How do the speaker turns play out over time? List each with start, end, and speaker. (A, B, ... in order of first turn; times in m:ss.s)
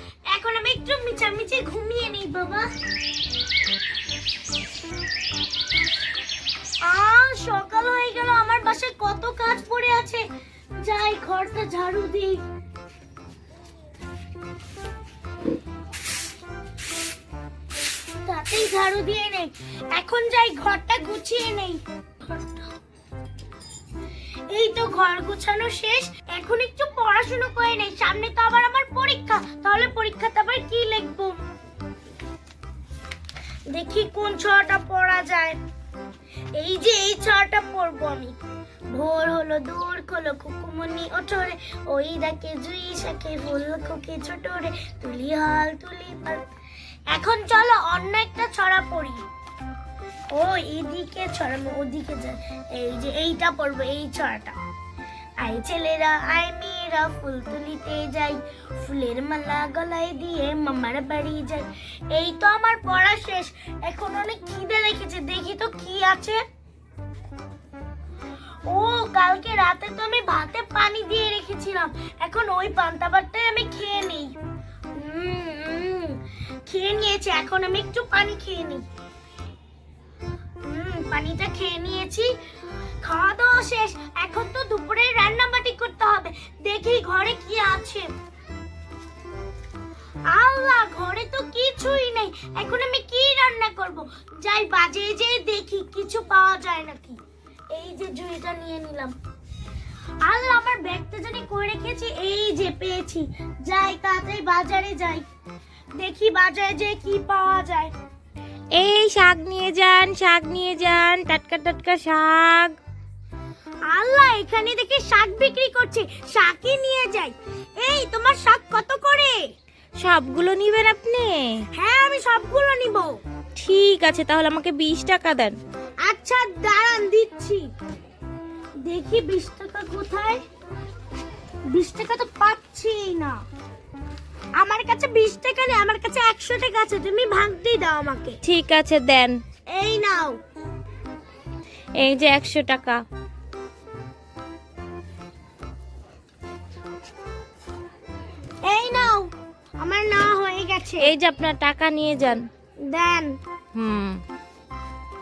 0:00.3-0:02.7 A
0:06.8-0:10.2 A
0:10.8-0:12.4 A
0:18.2-0:22.7 A
0:24.5-0:31.4 A
0:33.7-0:35.6 A
0:36.5-0:38.4 A
0:38.9-0:46.4 A
0:47.1-0:49.2 A
0:50.3-0:54.5 A
0:55.4-1:06.4 A
1:08.7-1:14.3 A
1:15.0-1:18.8 A
1:20.6-1:22.3 A
1:23.0-1:28.1 A
1:30.3-1:37.2 A
1:37.7-1:39.2 A
1:40.2-1:45.2 A
1:46.0-1:47.9 A
1:48.8-1:52.8 B
1:53.9-1:59.4 A
2:00.0-2:01.6 B
2:01.7-2:03.2 A
2:03.6-2:05.6 B
2:06.0-2:07.7 A
2:08.8-2:10.4 A
2:11.7-2:13.4 A
2:14.6-2:18.4 A
2:18.4-2:19.4 B
2:19.7-2:20.4 A
2:22.0-2:23.0 B
2:28.6-2:31.1 A
2:31.0-2:32.4 B
2:32.9-2:33.4 A
2:33.8-2:34.2 B